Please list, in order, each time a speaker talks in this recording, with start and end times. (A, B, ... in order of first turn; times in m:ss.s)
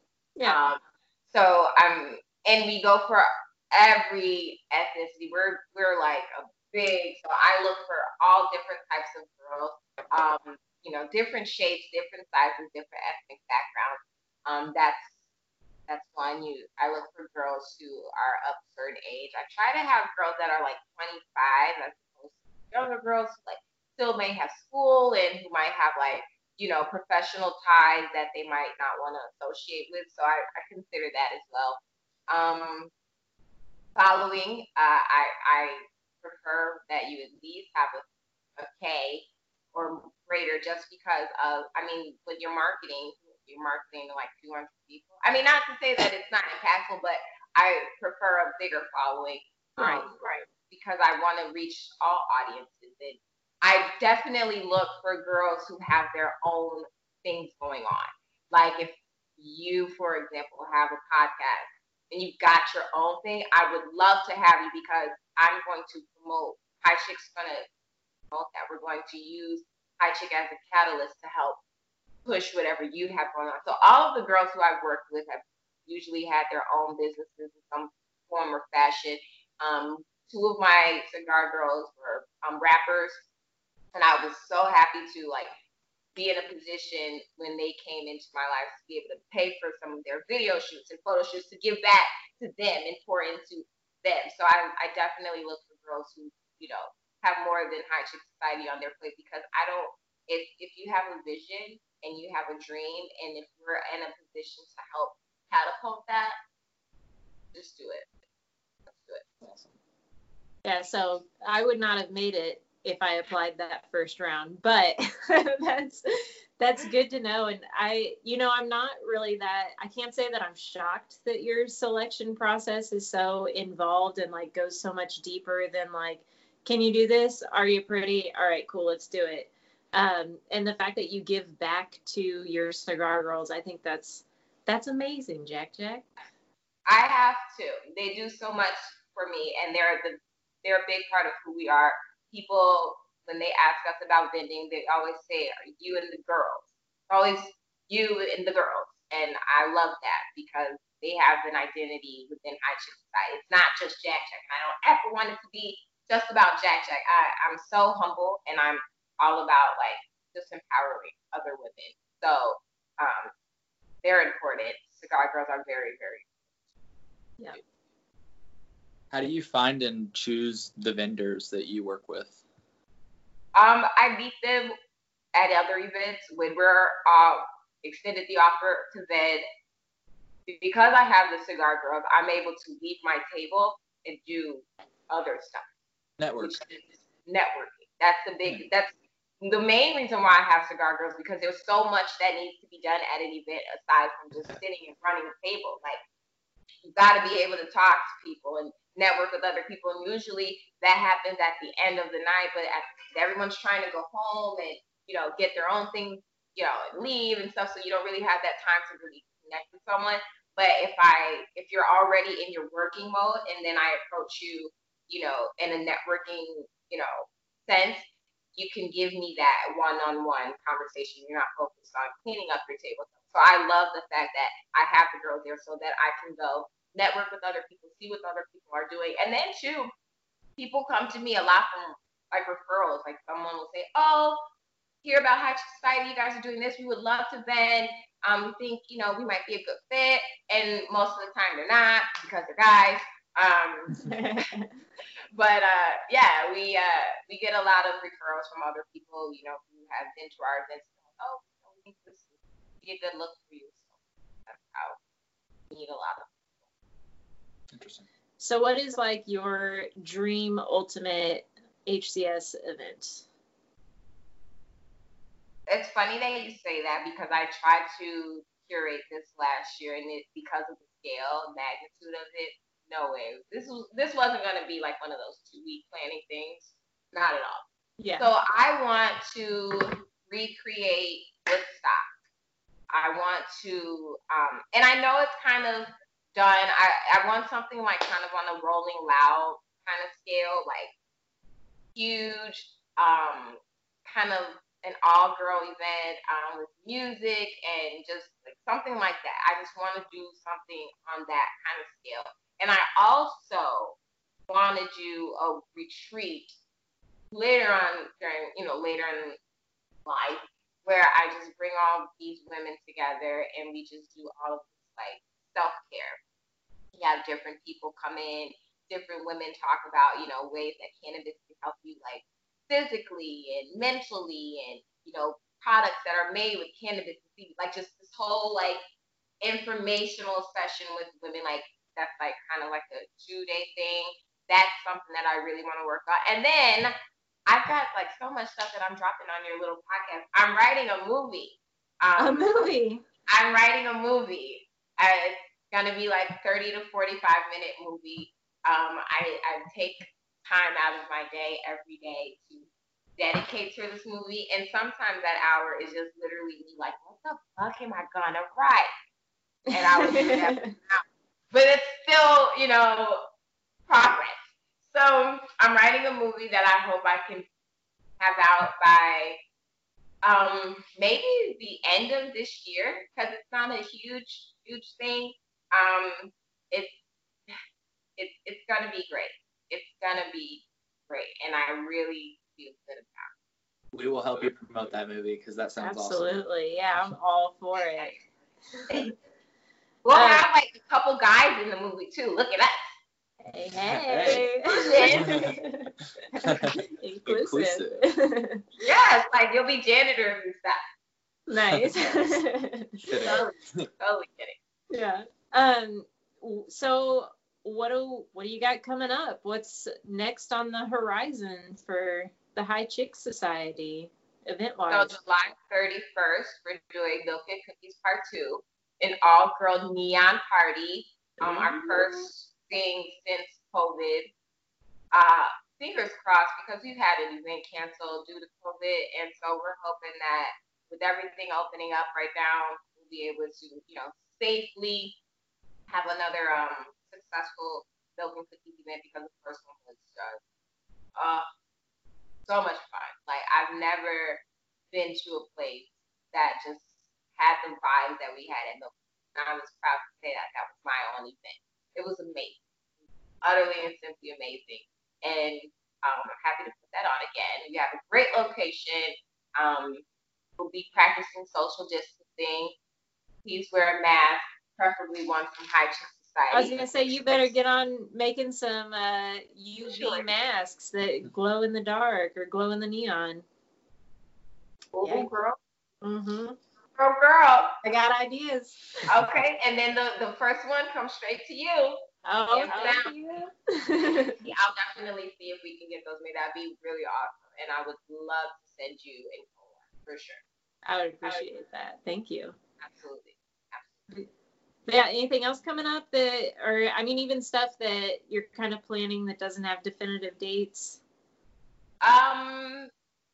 0:00.4-0:15.1 A
0:15.9-0:32.9 A
0:34.0-0:38.0 A
0:38.6-1:07.6 A
0:49.8-0:50.4 B
1:08.3-1:11.6 A
1:12.2-1:23.2 A
1:23.9-1:25.5 A
1:26.1-1:46.3 A
1:47.5-1:48.1 A
1:48.9-1:49.3 A
1:49.4-1:49.7 C
1:50.6-2:16.1 B
2:16.8-2:43.3 A
2:44.0-2:46.3 A
2:49.1-2:52.4 C
2:53.5-2:54.7 A
2:55.3-2:59.4 A
3:00.5-3:05.6 A
3:06.2-3:06.6 C
3:06.4-3:16.0 A
3:16.8-3:38.0 A
3:38.6-3:49.9 A
3:50.6-3:54.4 A
3:55.0-4:04.0 A
4:03.9-4:04.8 B
4:05.3-4:12.3 A
4:12.8-4:15.0 A
4:15.7-4:16.3 A
4:17.7-4:18.0 C
4:18.4-4:23.2 B
4:25.7-4:37.6 A
4:38.0-4:38.3 B
4:38.2-4:42.0 A
4:42.9-4:50.9 A
4:51.9-5:04.0 A
5:04.5-5:06.6 A
5:07.3-5:09.4 A
5:10.0-5:16.2 A
5:16.9-5:28.8 A
5:29.4-5:36.9 A
5:37.4-5:42.5 A
5:42.2-5:43.0 B
5:43.3-5:52.7 A
5:53.2-5:58.9 A
5:59.7-6:00.7 B
5:59.7-6:03.2 A
6:03.9-6:07.4 A
6:08.2-6:09.4 A
6:10.2-6:16.9 A
6:18.2-6:23.3 A
6:23.9-6:26.3 C
6:25.8-6:28.2 B
6:30.0-6:32.9 A
6:30.1-6:30.4 B
6:33.5-6:38.6 B
6:33.8-6:34.4 C
6:34.7-6:35.5 A
6:35.2-6:35.5 C
6:36.4-6:38.0 C
6:38.8-6:40.8 A
6:41.5-6:43.3 B
6:41.7-6:42.4 C
6:43.0-6:43.9 C
6:43.2-6:44.6 A
6:44.9-6:55.2 B
6:54.9-7:04.3 A
7:01.4-7:02.3 B
7:05.1-7:15.2 A
7:15.9-7:20.4 A
7:21.2-7:21.4 A
7:22.4-7:32.6 A
7:33.4-7:40.0 A
7:40.6-7:42.7 A
7:43.4-7:47.5 A
7:46.5-7:53.4 B
7:49.8-7:50.3 A
7:54.9-7:55.6 A
7:55.0-7:55.3 B
7:56.0-7:56.6 B
7:57.0-7:57.8 A
7:57.8-7:59.1 B
7:59.1-8:03.1 A
8:02.2-8:04.4 B
8:04.4-8:10.4 A
8:10.8-8:12.6 B
8:12.8-8:13.9 A
8:14.8-8:21.0 B
8:22.0-8:22.9 A